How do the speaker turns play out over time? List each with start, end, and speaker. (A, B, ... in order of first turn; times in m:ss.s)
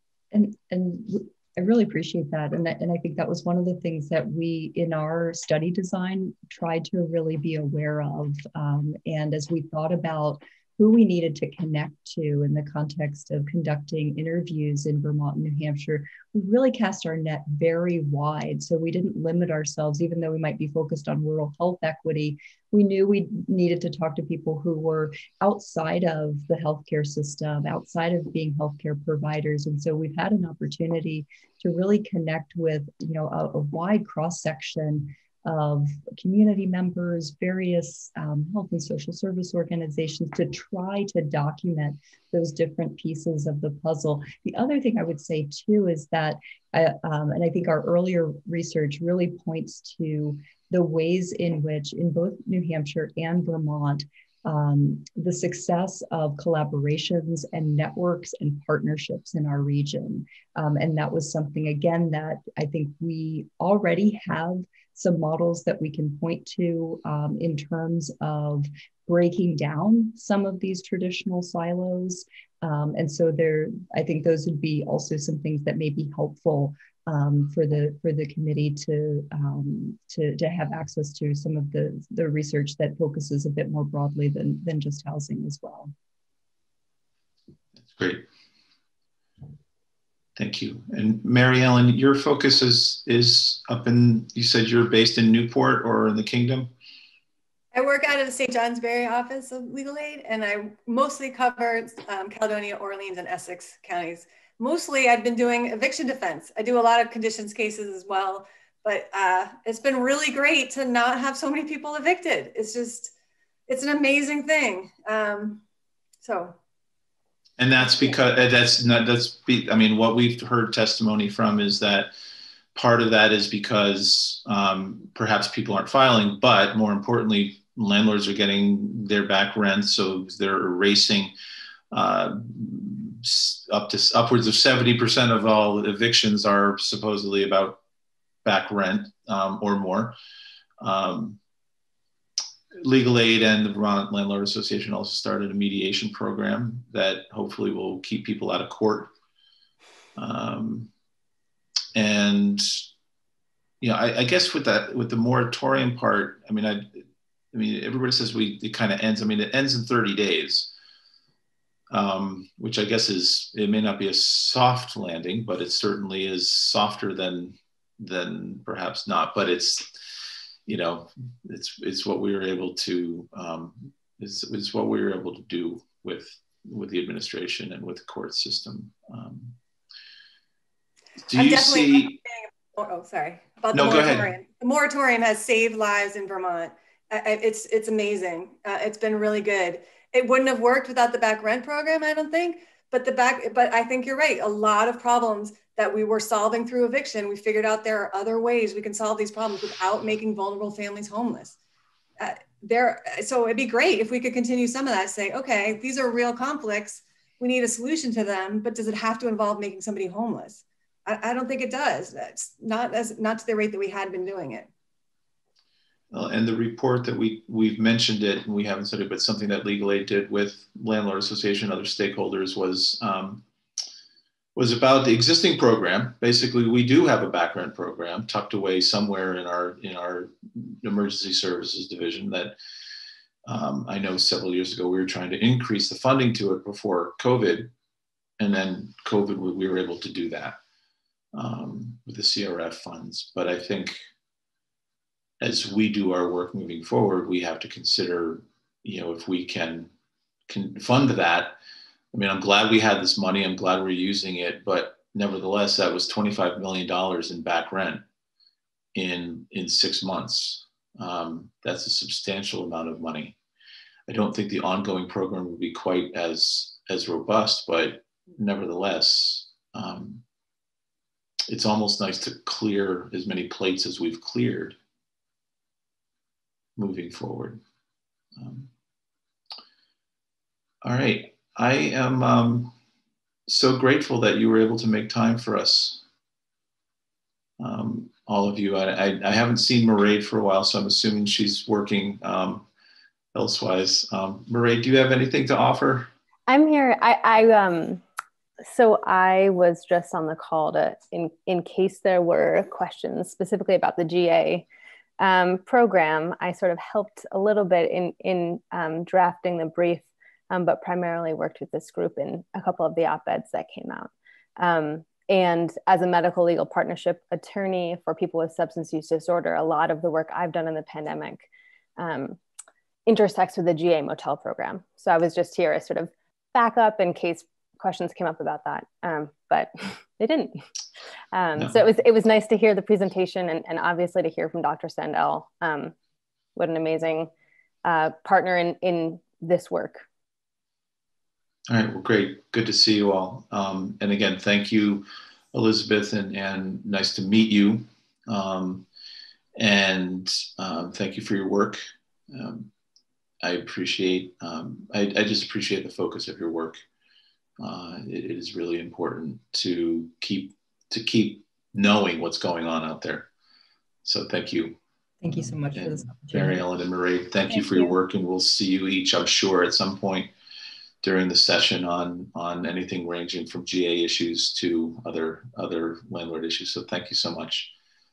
0:00.3-1:25.9 A
1:27.8-1:28.2 B
1:30.4-1:36.7 B
1:37.7-1:53.1 C
1:53.7-1:55.6 C
1:56.2-1:56.6 C
1:57.6-2:02.1 B
1:57.8-1:58.2 C
2:02.7-2:11.3 B
2:11.9-2:17.8 B
2:18.4-2:20.2 B
2:20.8-2:21.4 B
2:22.8-2:29.1 B
2:30.2-2:30.9 B
2:31.9-2:32.8 B
2:33.8-2:37.0 B
2:37.5-2:40.7 B
2:41.9-2:49.9 B
2:50.6-2:59.6 B
3:01.3-3:02.2 B
3:01.3-3:21.6 C
3:03.7-3:04.3 B
3:22.2-3:34.7 C
3:36.1-3:43.4 B
3:44.6-3:52.6 B
3:53.5-3:57.7 B
3:58.4-4:00.6 B
4:01.3-4:04.0 B
4:05.4-4:09.9 B
4:10.5-4:11.6 B
4:12.1-4:18.0 B
4:18.9-4:23.4 B
4:24.1-4:30.2 B
4:31.5-4:34.8 B
4:36.8-4:37.6 B
4:38.4-4:38.7 B
4:40.8-4:42.7 B
4:43.5-4:46.0 B
4:47.6-4:52.6 B
4:53.3-4:56.1 B
4:56.5-4:58.0 D
4:58.6-5:04.6 D
5:05.2-5:22.4 D
5:23.1-5:30.6 D
5:31.3-5:35.9 D
5:36.6-5:37.3 D
5:37.8-5:40.0 D
5:41.7-5:48.8 B
5:49.6-5:52.7 B
5:53.4-5:56.8 B
5:57.6-6:03.3 B
6:04.0-6:04.8 B
6:05.2-6:06.6 A
6:05.3-6:10.3 B
6:11.0-6:17.7 B